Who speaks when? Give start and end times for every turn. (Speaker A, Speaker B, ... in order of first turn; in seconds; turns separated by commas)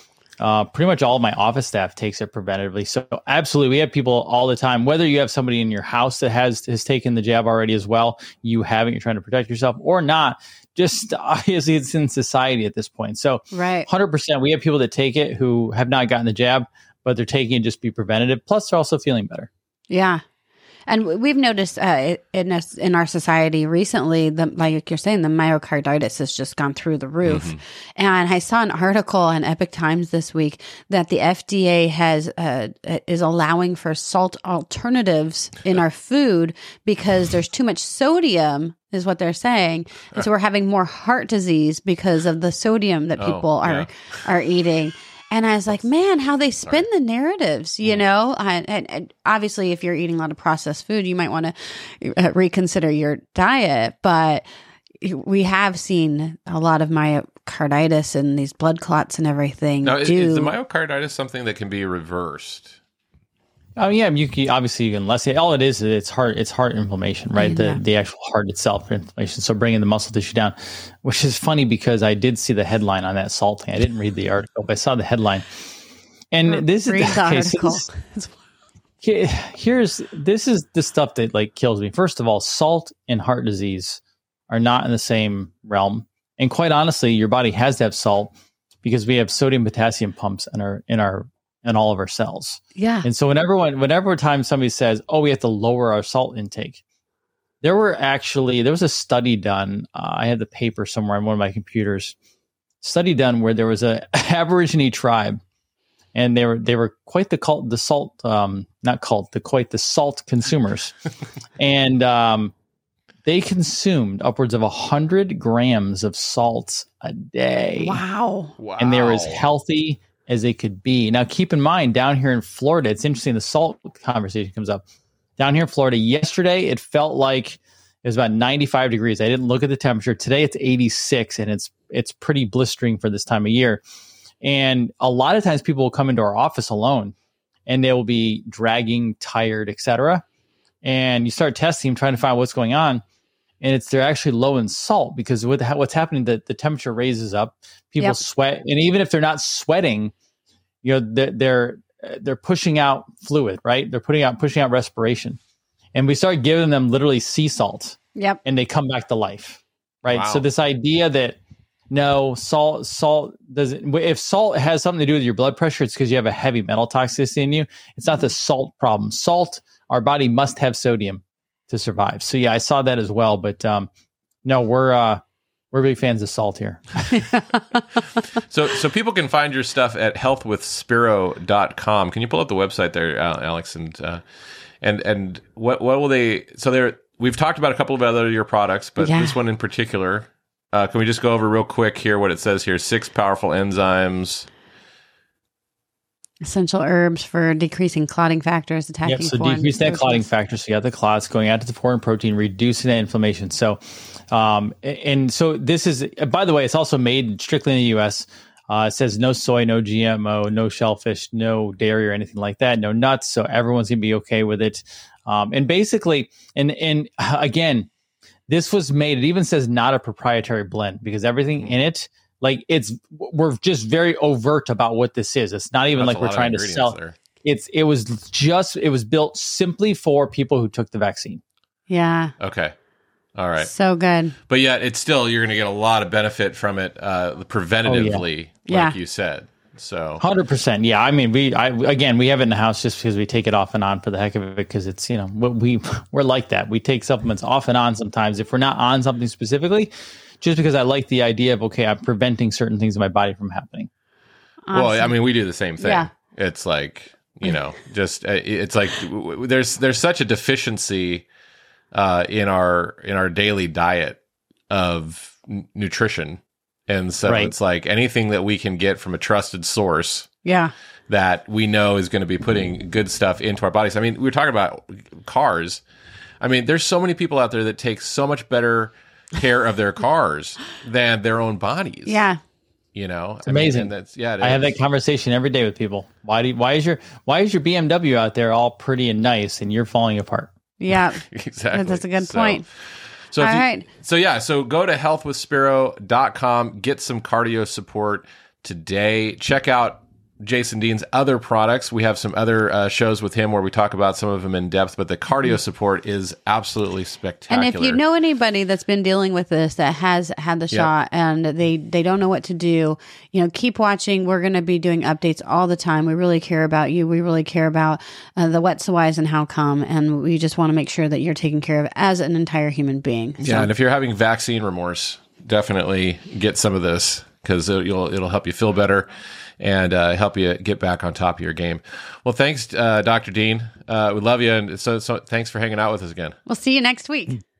Speaker A: 0.4-19.5, Speaker B: 13.5-13.9, Speaker B: 19.9-20.2, Speaker B: 20.9-54.5, Speaker C: 27.2-27.6, Speaker C: 43.2-43.9, Speaker B: 55.0-60.5, Speaker C: 59.8-62.8, Speaker A: 63.8-75.5, Speaker B: 67.3-67.8, Speaker A: 76.3-77.8, Speaker B: 76.5-78.3, Speaker A: 79.0-88.3, Speaker A: 88.8-96.8, Speaker B: 92.8-93.1, Speaker A: 97.6-102.1, Speaker A: 102.8-105.4, Speaker A: 106.1-110.9, Speaker A: 111.6-112.5, Speaker A: 113.2-118.0, Speaker B: 117.8-118.5, Speaker C: 118.6-119.5, Speaker A: 118.8-124.8, Speaker A: 125.4-133.8, Speaker A: 134.4-137.1, Speaker A: 137.7-140.2, Speaker A: 140.8-143.0, Speaker A: 143.6-150.1, Speaker A: 150.8-155.4, Speaker A: 155.9-161.4, Speaker B: 158.1-158.4, Speaker C: 160.1-160.4, Speaker A: 161.9-173.9, Speaker A: 174.4-177.2, Speaker C: 178.5-184.2, Speaker C: 184.8-194.5, Speaker B: 189.0-189.3, Speaker B: 196.4-200.2, Speaker A: 199.0-217.9, Speaker A: 218.5-231.4, Speaker C: 225.9-227.2, Speaker B: 231.9-232.3, Speaker C: 232.4-232.7, Speaker C: 233.3-233.7, Speaker B: 233.6-234.3, Speaker C: 234.5-240.2, Speaker A: 237.8-238.2, Speaker B: 238.7-238.9, Speaker A: 240.2-253.9, Speaker B: 254.7-255.1, Speaker C: 254.7-261.2, Speaker B: 255.8-256.1, Speaker C: 261.9-264.2, Speaker C: 264.7-270.3, Speaker A: 267.2-267.5, Speaker B: 270.4-270.7, Speaker C: 271.1-275.8, Speaker C: 276.4-282.3, Speaker B: 282.1-282.4, Speaker C: 282.9-284.8, Speaker A: 283.4-290.5, Speaker B: 290.8-292.6, Speaker C: 291.2-292.6, Speaker C: 293.3-308.0, Speaker B: 293.4-293.9, Speaker B: 307.5-323.7, Speaker C: 323.4-329.1, Speaker C: 329.6-336.4, Speaker B: 336.4-337.4